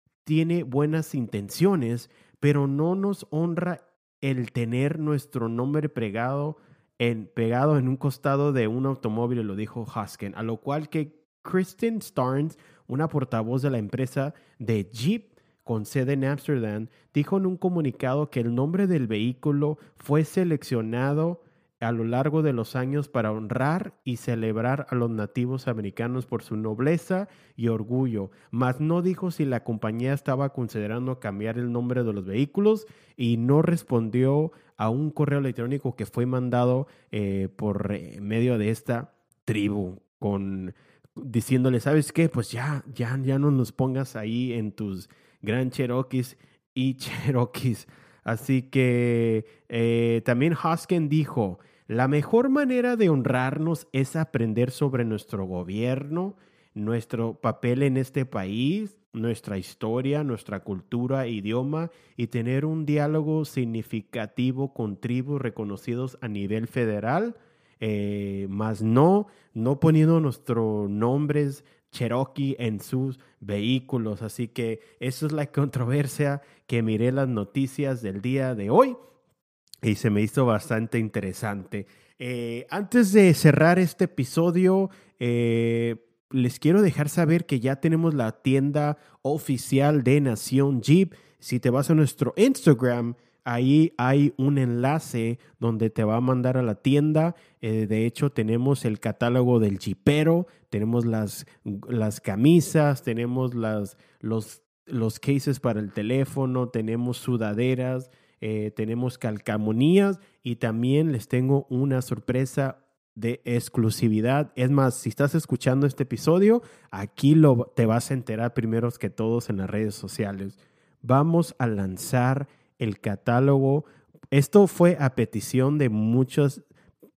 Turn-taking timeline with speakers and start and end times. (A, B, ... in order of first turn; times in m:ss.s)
0:00.2-1:19.0 A
1:19.8-2:06.6 A